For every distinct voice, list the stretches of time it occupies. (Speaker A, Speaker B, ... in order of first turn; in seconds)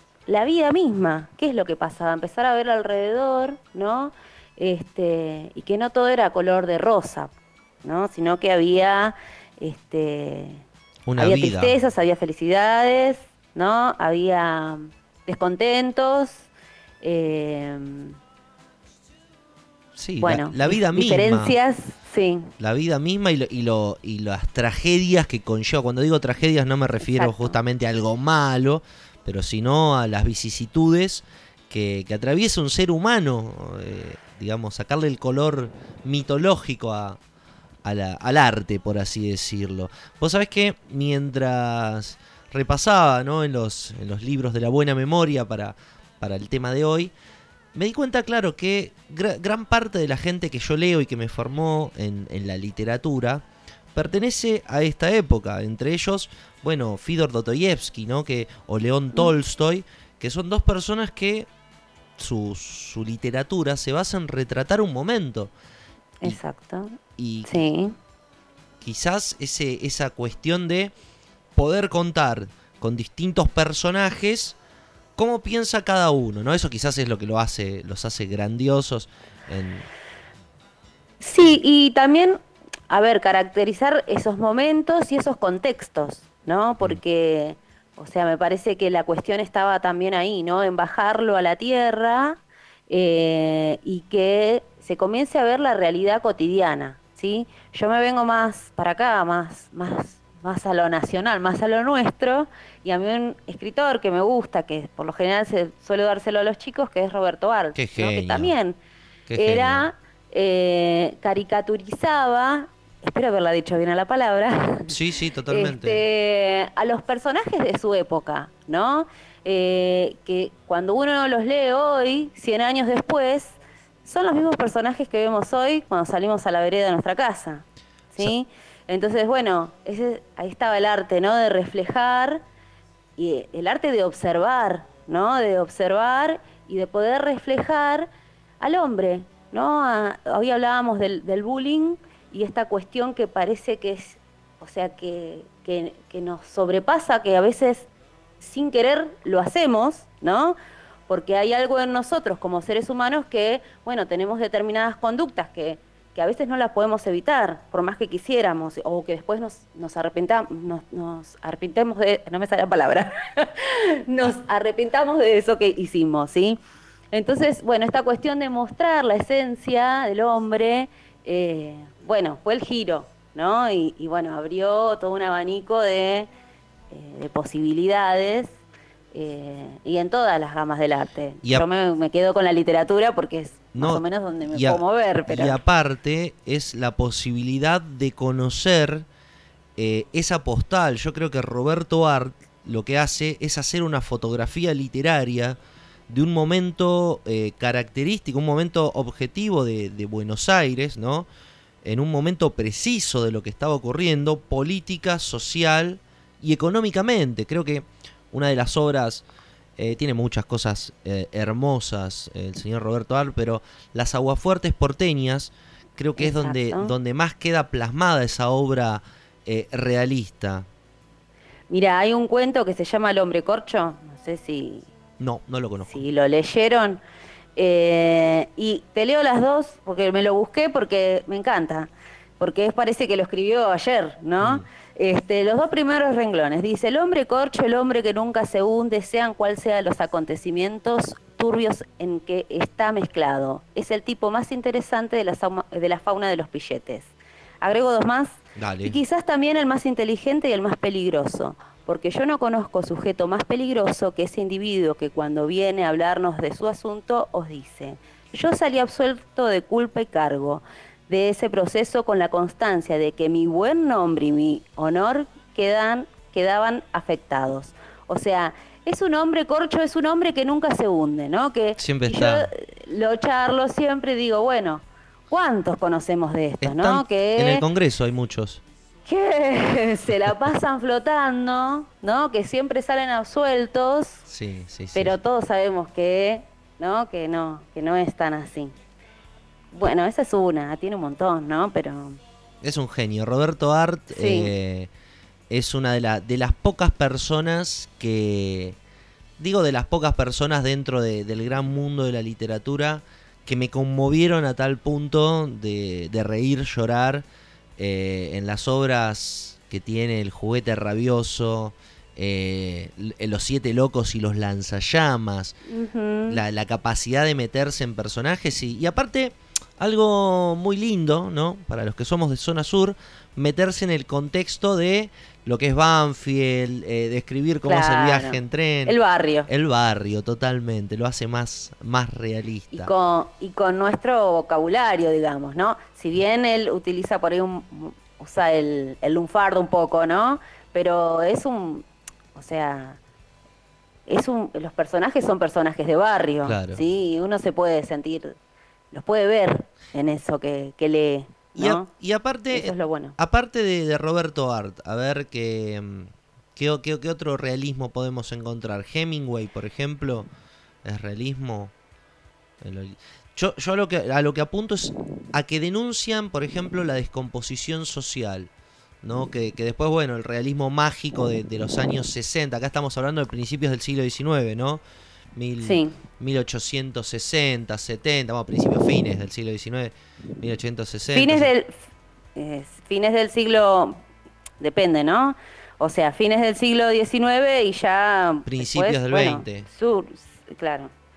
Speaker A: 0.3-7.3, 7.8-10.7, 11.2-16.5, 17.0-18.2, 20.2-22.5, 27.0-27.6, 66.2-67.9, 81.2-108.8, 109.4-114.9, 115.5-132.4, 133.2-138.1, 138.6-147.9, 148.4-150.6, 151.1-166.6, 167.1-176.3, 176.9-178.5, 179.1-185.6, 216.2-216.9, 221.7-224.9, 225.8-227.0, 227.6-277.6, 279.1-284.2, 284.9-288.8, 289.7-292.2, 294.1-294.5, 315.7-316.4, 327.6-329.5, 332.7-343.0, 344.1-348.4, 348.9-351.9, 352.5-353.1, 375.6-376.0, 381.1-384.0, 384.6-390.9
Speaker B: 11.1-11.8, 19.9-21.5, 22.6-37.2, 37.8-47.1, 47.7-61.5, 62.2-65.5, 67.2-67.6, 68.8-70.9, 71.5-74.6, 75.2-79.9, 107.7-108.5, 109.3-109.9, 114.9-116.0, 183.7-189.1, 189.8-195.6, 196.1-201.3, 201.8-209.2, 209.8-220.7, 225.2-226.0, 234.4-234.6, 248.6-249.0, 271.8-272.5, 276.6-278.6, 284.3-285.1, 292.6-294.9, 295.5-298.8, 299.4-307.2, 307.8-315.6, 316.3-332.9, 346.4-346.8, 351.6-360.3, 360.8-361.7, 362.6-368.5, 369.0-374.8, 375.3-381.5, 388.4-389.7